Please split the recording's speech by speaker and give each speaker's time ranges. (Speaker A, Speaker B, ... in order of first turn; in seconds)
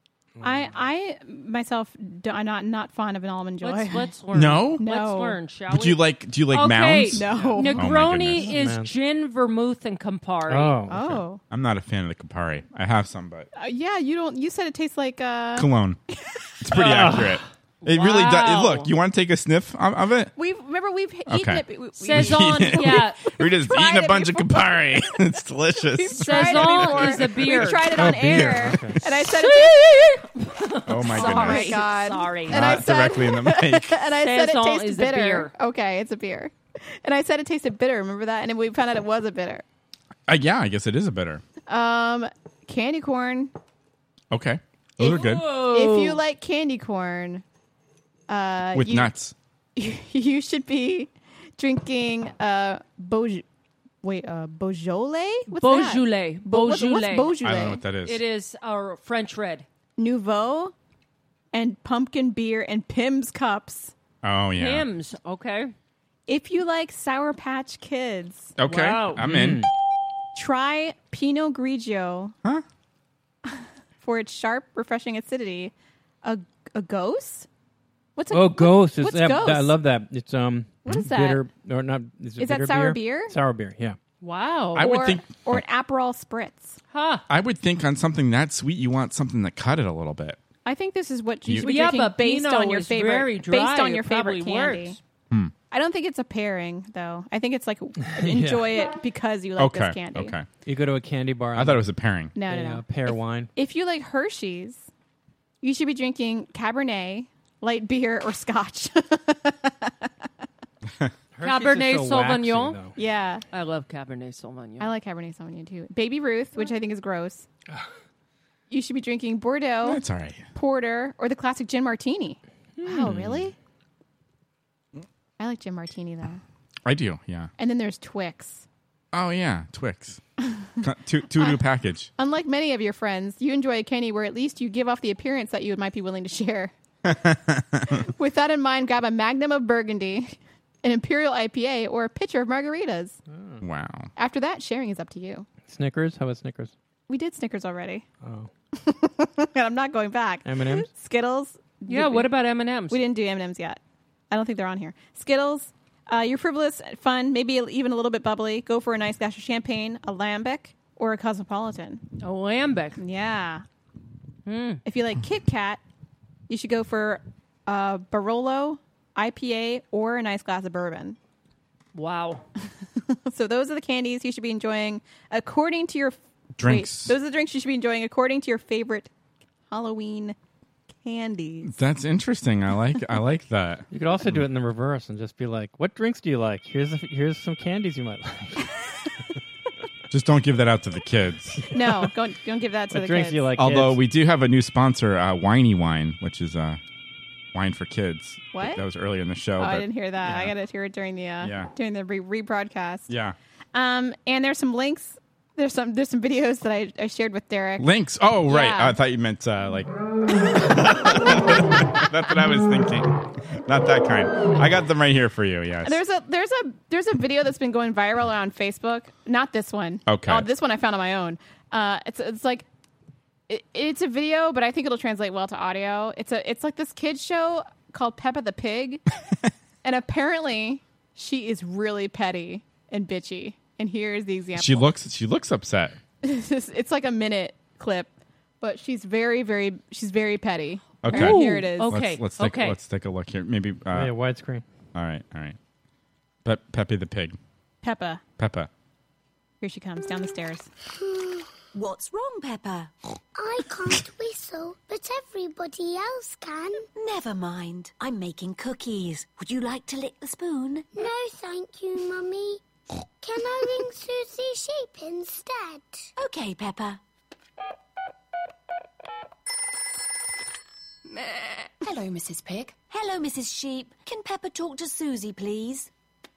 Speaker A: 0.4-0.7, 8.4-8.9, 10.5-11.2, 16.7-17.4, 27.7-29.0, 69.2-69.7, 78.3-84.0, 98.0-98.7, 100.7-101.8, 102.4-103.5, 111.3-112.9, 122.8-123.4, 143.3-143.6, 145.7-146.7, 148.2-148.5, 150.4-150.9, 183.9-188.7, 192.9-194.0, 243.9-244.6
Speaker B: 0.4-4.0, 4.8-5.4, 7.1-7.8, 10.9-11.4, 13.5-15.7, 20.4-24.8, 25.9-30.1, 31.1-39.6, 41.7-43.5, 45.0-47.4, 48.3-49.1, 49.8-53.4, 54.0-57.8, 60.0-60.7, 61.5-63.9, 66.3-68.5, 70.3-72.3, 73.5-77.5, 78.2-79.7, 80.8-81.4, 82.4-83.3, 84.8-86.8, 90.6-95.0, 95.7-100.3, 102.3-104.9, 105.6-110.1, 113.0-113.4, 114.8-117.5, 118.7-120.0, 120.5-123.5, 125.4-126.4, 127.6-128.7, 132.2-136.7, 138.0-143.2, 144.2-145.4, 147.1-148.0, 148.7-152.3, 152.9-153.8, 154.3-162.0, 163.0-163.6, 164.8-165.8, 166.5-171.2, 173.1-179.1, 179.7-180.3, 181.0-181.7, 191.7-193.5, 198.5-198.8, 199.6-203.1, 203.7-207.9, 208.4-209.0, 215.8-222.7, 223.5-229.0, 229.8-234.9, 236.2-241.9, 247.8-248.2, 249.6-250.7
Speaker C: 3.6-10.8, 17.8-18.9, 22.0-23.2, 26.1-28.1, 29.3-32.6, 34.2-35.5, 45.0-46.2, 55.5-57.4, 58.0-59.7, 64.6-65.7, 68.7-69.2, 84.2-84.9, 86.9-87.2, 91.6-95.0, 111.4-112.8, 113.5-114.9, 151.9-153.0, 162.2-163.0, 164.4-164.8, 171.9-172.4, 241.1-242.8
Speaker D: 4.3-4.8, 5.7-8.5, 11.5-13.5, 15.6-16.0, 16.6-20.3, 21.3-27.1, 30.9-31.8, 32.5-34.0, 40.3-41.4, 44.3-45.5, 48.7-49.3, 57.4-58.2, 64.2-64.8, 68.6-69.7, 84.7-85.6, 87.3-90.4, 91.4-91.7, 99.6-100.5, 101.5-102.3, 119.8-120.5, 126.8-127.5, 129.1-130.2, 130.8-132.1, 137.0-138.0, 143.6-144.1, 176.6-177.1, 181.6-184.4, 190.1-191.6, 193.6-196.8, 197.5-200.5, 201.4-201.7, 203.1-203.3, 207.8-216.0, 220.1-220.5, 234.6-235.9, 241.0-244.1, 244.9-245.6, 246.4-247.4, 248.4-248.7
Speaker E: 250.9-251.5, 253.3-256.9, 260.9-262.6, 263.2-266.1
Speaker F: 251.7-252.9, 256.9-260.9, 266.2-267.0, 271.8-275.9